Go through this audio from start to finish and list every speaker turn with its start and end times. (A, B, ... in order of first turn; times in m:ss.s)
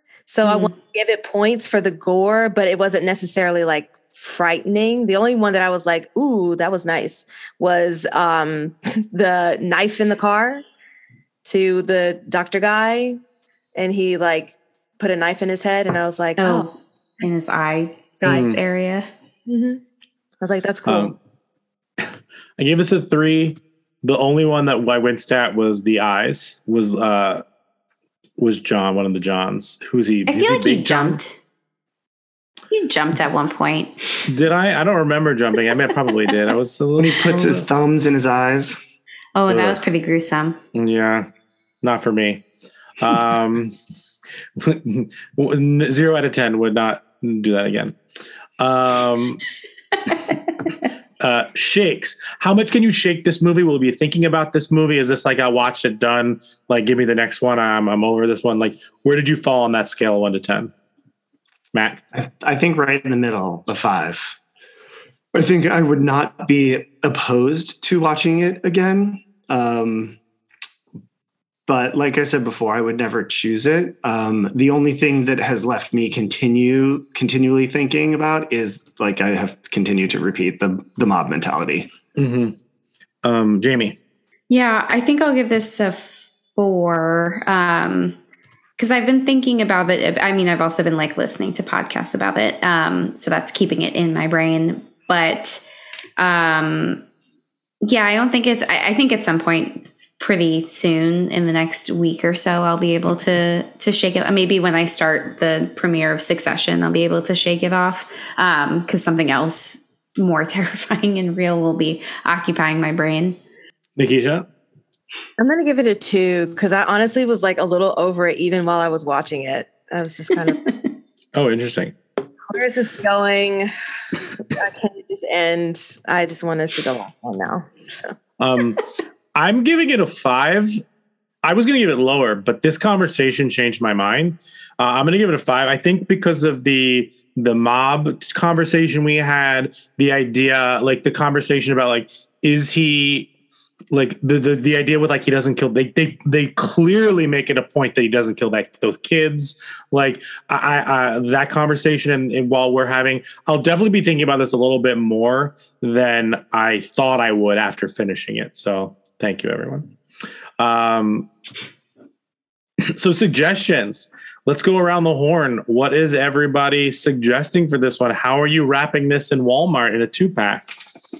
0:00.3-0:10.6 A
0:00.4-0:00.7 B
0:11.4-0:13.2 A
0:13.8-0:16.7 A
0:16.4-0:19.1 B
0:18.2-0:18.6 C
0:19.5-0:19.8 A
0:20.4-0:21.2 A
0:20.9-0:21.2 C
0:22.6-0:27.4 C
0:28.4-0:31.2 C
0:30.3-0:31.4 B
0:32.7-0:34.2 B
0:34.3-0:37.6 C
0:37.0-0:38.8 D
0:39.4-0:40.6 B
0:39.5-0:39.8 C
0:40.8-0:41.3 C
0:41.8-0:42.4 C
0:43.0-0:43.8 C
0:44.6-0:48.0 C
0:48.6-0:49.4 C
0:51.2-1:00.7 C
1:01.7-1:02.0 C
1:02.1-1:04.4 D
1:05.3-1:10.2 D
1:11.7-1:21.9 D
1:22.2-1:22.6 C
1:23.2-1:24.0 C
1:24.5-1:28.2 B
1:28.8-1:35.6 B
1:36.2-1:37.0 B
1:37.8-1:53.4 B
1:54.0-1:54.4 C
1:55.4-2:00.7 A
2:01.4-2:02.0 C
2:02.5-2:03.7 A
2:04.4-2:08.2 A
2:08.4-2:08.8 C
2:09.4-2:10.8 C
2:11.4-2:23.3 C
2:23.9-2:39.9 C
2:40.6-2:41.3 C
2:42.9-2:50.7 C